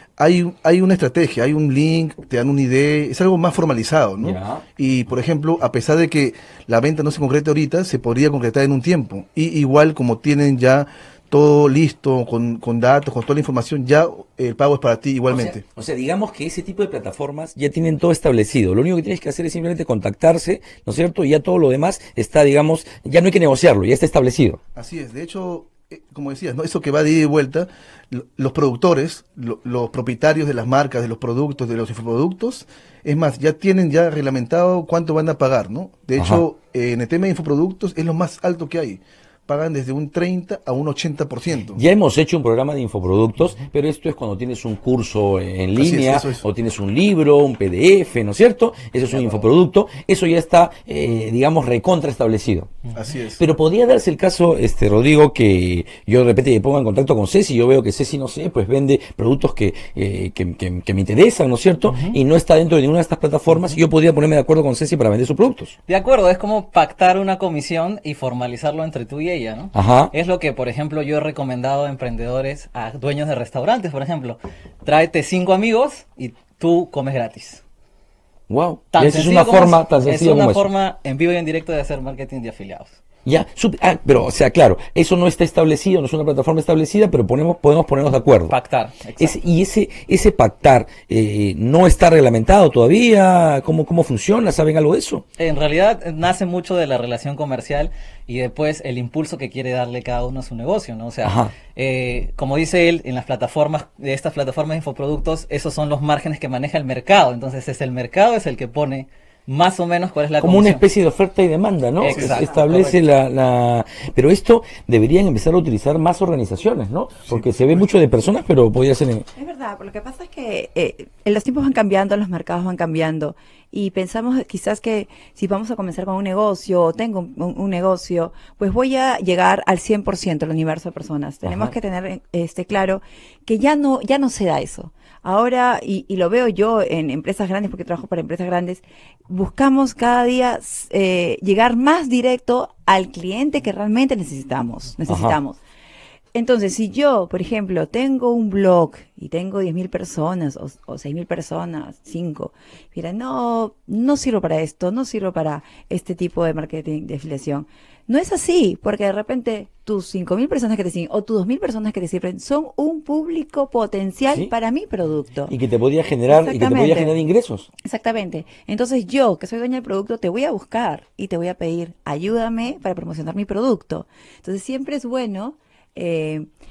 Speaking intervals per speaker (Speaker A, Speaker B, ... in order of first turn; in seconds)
Speaker A: 0.2-15.6, 24.7-41.8, 45.8-46.4, 49.1-49.4, 52.9-53.4, 117.3-117.8
Speaker B: 4.2-4.6, 15.3-24.6, 36.2-36.4, 41.7-52.8, 53.4-65.8, 69.7-70.1, 78.5-80.7, 83.2-88.5, 89.2-95.2, 101.2-101.5, 110.4-119.3, 131.4-131.7, 145.1-145.4, 165.5-167.7
Speaker C: 61.9-62.2, 65.9-77.6, 78.9-82.9, 88.5-89.4, 95.4-110.8, 112.0-113.0
Speaker D: 112.2-112.7, 119.3-145.6, 146.3-165.5, 166.3-167.1, 167.8-176.5